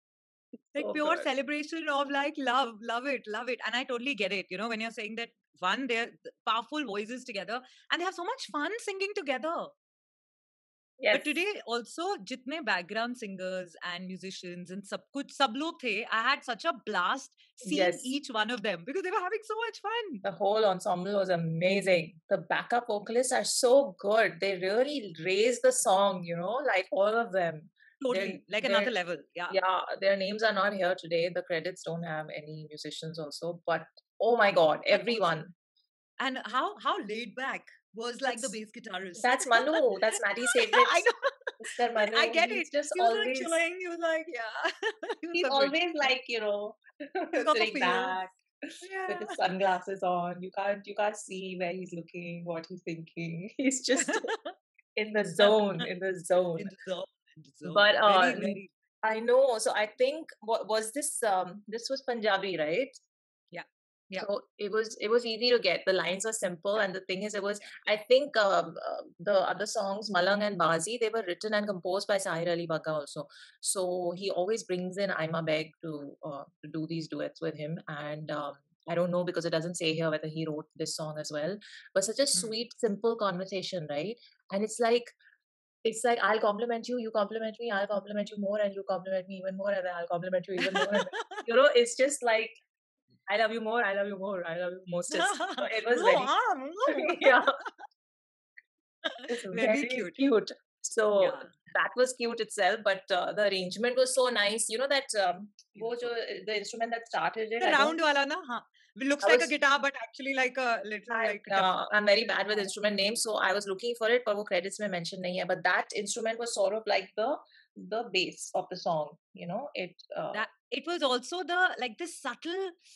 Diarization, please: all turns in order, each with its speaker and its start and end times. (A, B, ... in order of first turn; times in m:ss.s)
0:00.8-0:09.7 A
0:00.8-0:01.3 B
0:11.0-0:11.4 B
0:11.1-0:20.2 A
0:17.6-0:18.1 B
0:20.2-0:28.9 B
0:28.0-0:29.6 A
0:29.5-0:35.5 B
0:34.9-0:35.3 A
0:36.2-0:45.9 A
0:38.2-0:38.5 B
0:39.2-0:41.0 B
0:41.6-0:43.6 B
0:45.3-0:48.4 B
0:47.4-0:48.2 A
0:48.8-0:49.4 A
0:49.1-0:54.3 B
0:54.0-0:54.5 A
0:55.0-0:56.7 B
0:55.4-0:55.9 A
0:56.6-0:58.7 A
0:57.7-1:03.0 B
1:03.5-1:04.3 A
1:04.2-1:25.2 B
1:25.8-1:32.6 B
1:30.6-1:31.4 A
1:33.3-1:36.3 B
1:35.1-1:37.7 A
1:36.9-1:37.6 B
1:39.0-1:40.2 A
1:39.3-1:48.0 B
1:41.2-1:41.6 A
1:45.8-1:46.1 A
1:47.6-1:51.7 A
1:49.2-1:49.5 B
1:51.1-2:00.5 B
2:00.3-2:02.8 A